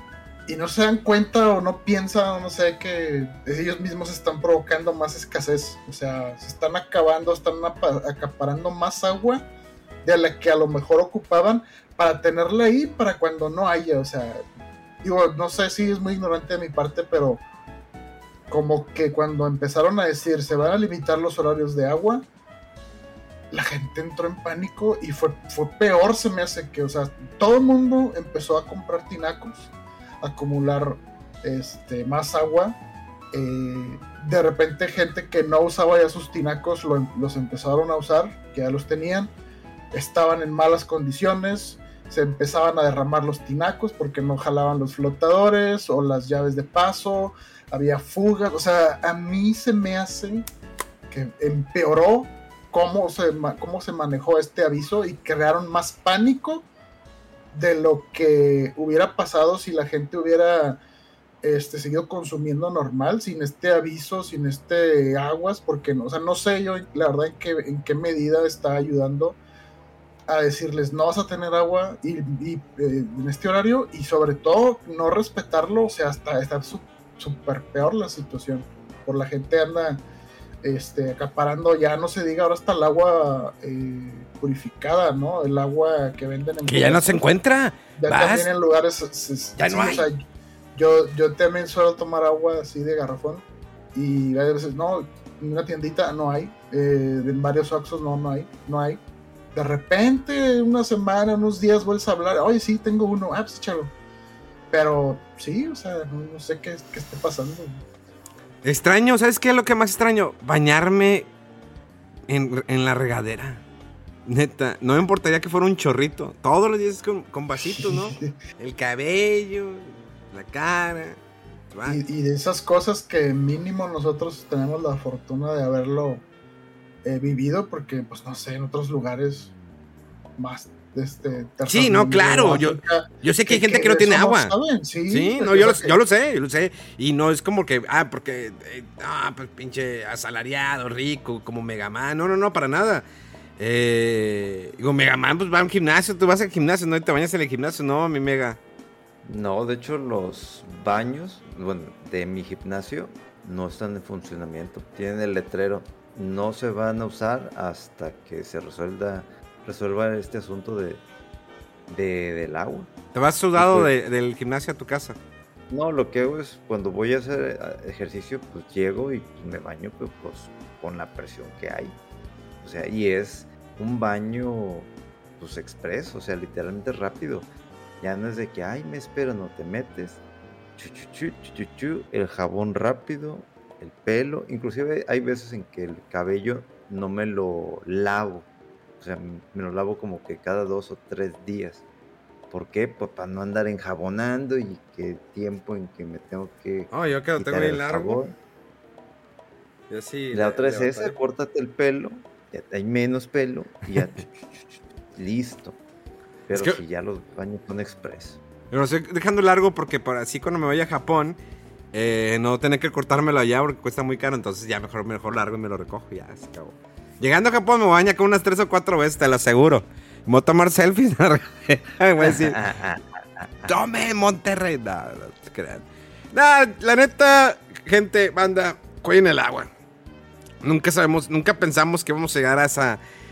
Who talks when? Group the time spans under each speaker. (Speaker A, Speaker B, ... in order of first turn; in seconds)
Speaker A: 0.5-9.4, 10.0-14.4, 15.0-17.4, 18.5-22.2, 23.5-32.8, 33.3-39.3, 39.9-50.5, 51.1-56.6, 57.5-60.8, 61.4-69.4, 70.3-80.0, 80.6-87.3, 88.0-90.2, 90.8-93.4, 93.9-99.0, 99.5-103.9, 104.7-107.8, 117.7-118.3, 121.8-126.2, 127.0-129.5, 130.4-136.0
Speaker B: 86.7-88.5, 89.6-90.0, 108.6-111.3, 112.3-113.6, 114.2-121.2, 121.7-122.0, 131.7-134.5, 135.1-143.0, 143.6-148.6, 163.1-165.2, 196.9-198.2, 199.9-201.1, 206.5-206.8, 208.7-211.3, 211.9-222.6, 223.7-229.7, 230.6-233.0
Speaker C: 149.2-161.0, 161.9-162.9, 163.6-163.9, 165.7-172.0, 172.6-177.5, 178.0-180.2, 180.8-188.5, 189.0-191.8, 192.5-198.3, 200.3-204.3, 205.1-205.8, 206.5-208.4, 222.2-223.7